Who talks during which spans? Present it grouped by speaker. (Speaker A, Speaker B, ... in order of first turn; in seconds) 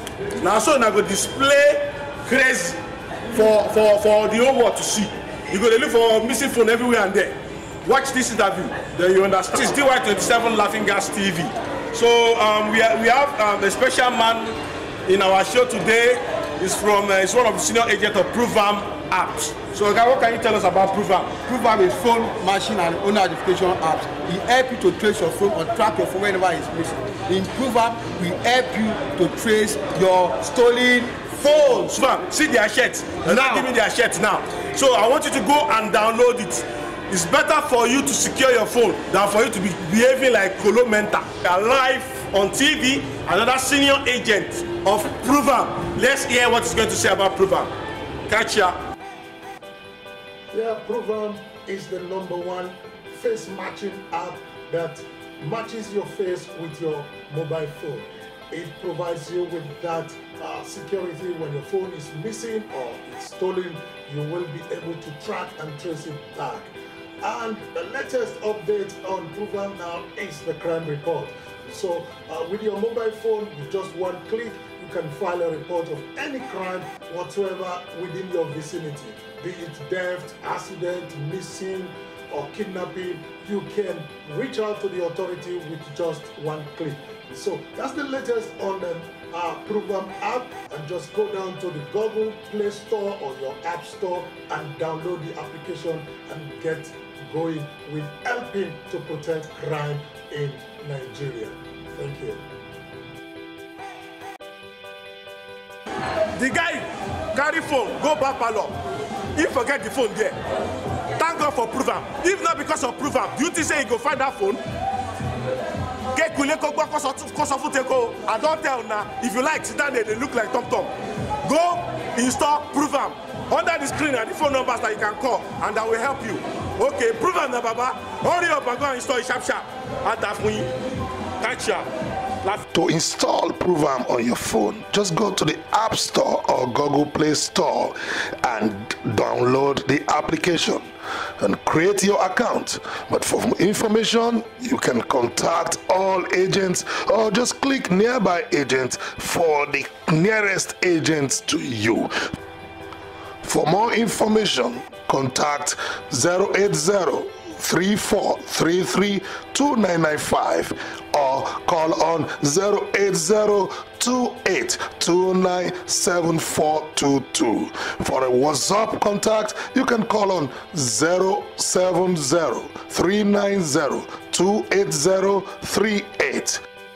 Speaker A: 0.4-2.8, 3.3-21.4, 31.4-47.7, 48.3-48.8, 106.3-108.8, 109.3-110.4, 111.2-114.6, 116.1-120.9, 121.4-130.7, 131.4-131.9
Speaker B: 21.4-31.9, 33.2-33.6
Speaker C: 50.5-102.4
Speaker D: 132.7-152.1, 153.4-176.6